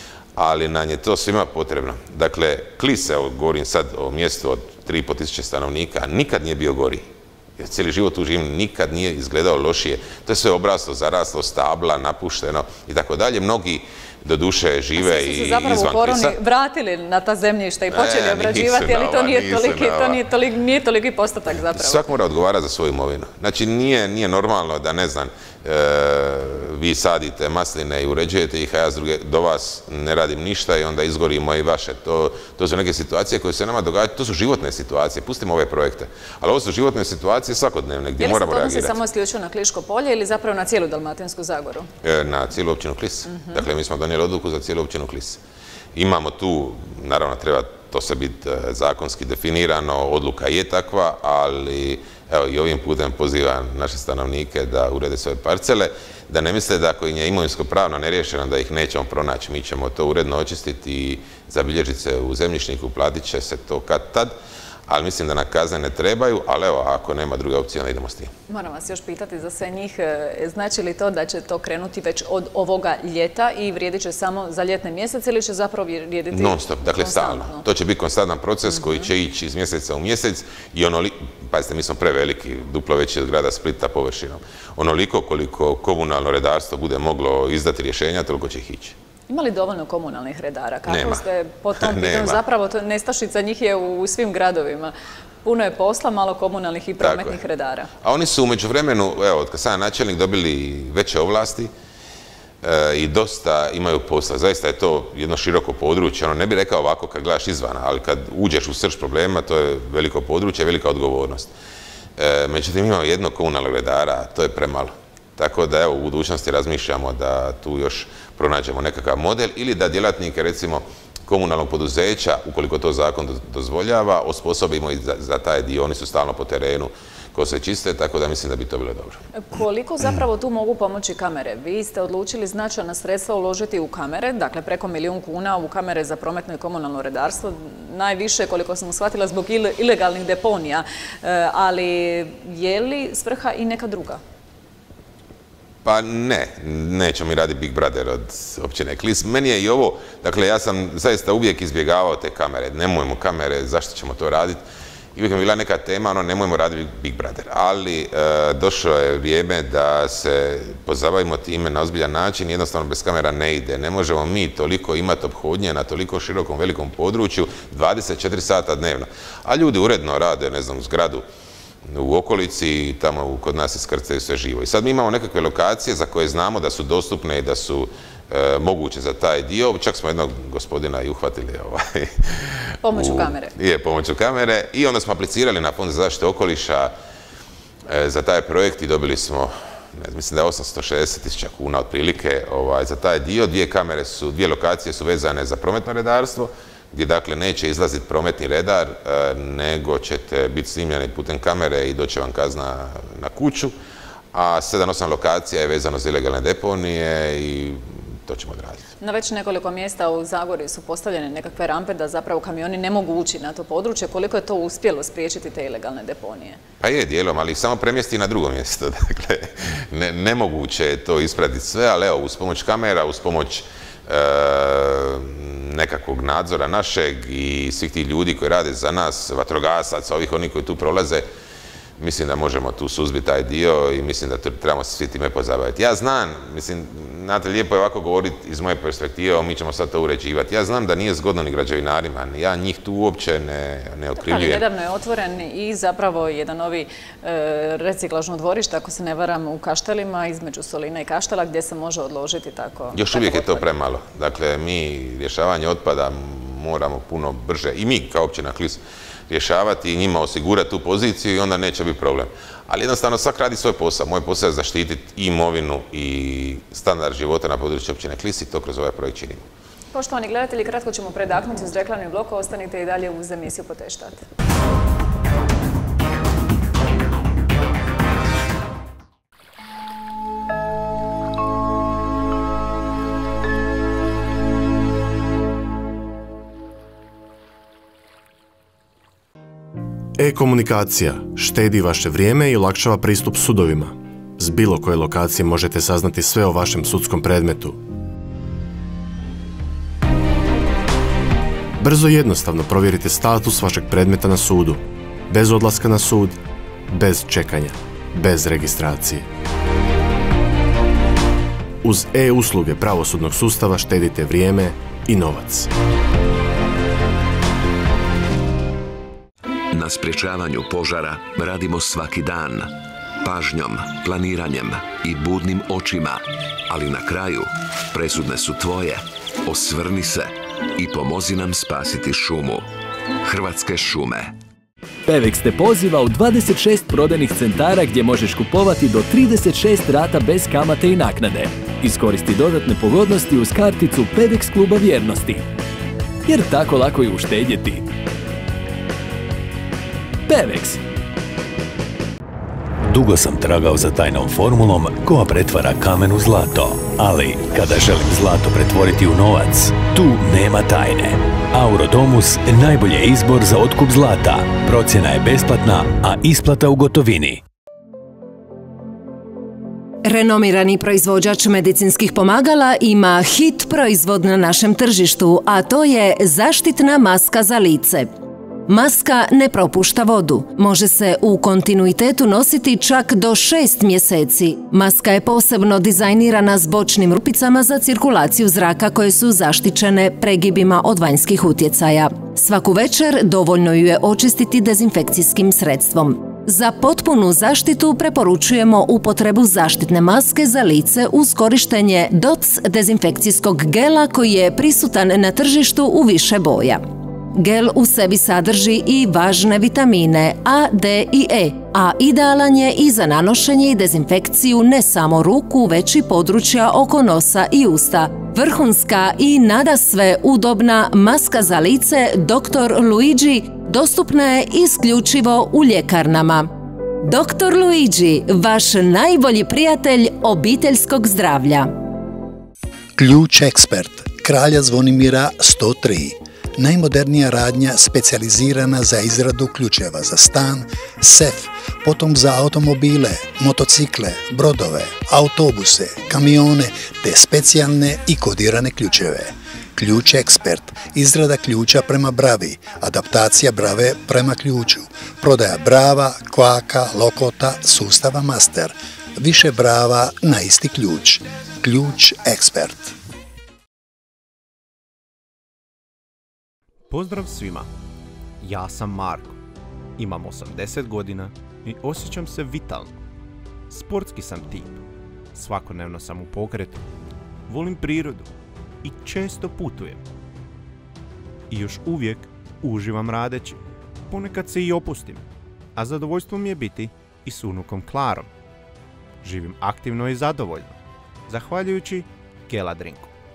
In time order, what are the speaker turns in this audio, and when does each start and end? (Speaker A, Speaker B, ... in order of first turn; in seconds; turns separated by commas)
Speaker A: 0.4-16.4, Speaker B: 15.0-22.0, Speaker A: 17.9-20.2, Speaker A: 21.7-39.0, Speaker B: 38.2-41.9, Speaker A: 42.0-45.4, Speaker B: 43.3-43.6, Speaker A: 46.0-64.3, Speaker A: 64.9-68.3, Speaker B: 68.5-77.6, Speaker A: 76.3-89.0, Speaker B: 78.8-79.1, Speaker B: 89.3-94.9, Speaker A: 90.9-91.2, Speaker A: 91.8-92.4, Speaker B: 95.4-97.9, Speaker A: 97.0-97.4, Speaker A: 98.0-101.7, Speaker A: 102.6-111.5, Speaker A: 112.2-129.2, Speaker B: 129.3-144.2, Speaker A: 145.8-154.6, Speaker A: 155.2-171.2, Speaker A: 171.9-186.9, Speaker B: 182.8-183.5, Speaker A: 187.9-203.7, Speaker A: 204.3-208.9, Speaker B: 209.0-216.6, Speaker A: 216.8-231.2, Speaker A: 232.0-244.6, Speaker B: 244.2-253.7, Speaker A: 252.9-269.5, Speaker B: 269.9-274.2, Speaker C: 290.2-297.8, Speaker C: 301.8-306.4, Speaker C: 306.9-309.3, Speaker C: 311.8-315.7, Speaker D: 319.7-332.7, Speaker D: 333.2-334.4, Speaker E: 335.1-345.4, Speaker E: 346.2-347.9, Speaker E: 350.3-350.8, Speaker F: 352.9-367.4, Speaker G: 370.0-378.1, Speaker G: 378.7-431.7, Speaker H: 433.0-462.9, Speaker I: 466.9-467.7, Speaker I: 468.4-469.4, Speaker I: 470.0-473.0, Speaker I: 473.7-474.8, Speaker I: 475.3-476.9, Speaker I: 477.5-478.3, Speaker I: 478.8-480.0, Speaker I: 481.5-488.3, Speaker I: 489.2-490.8, Speaker I: 491.3-493.1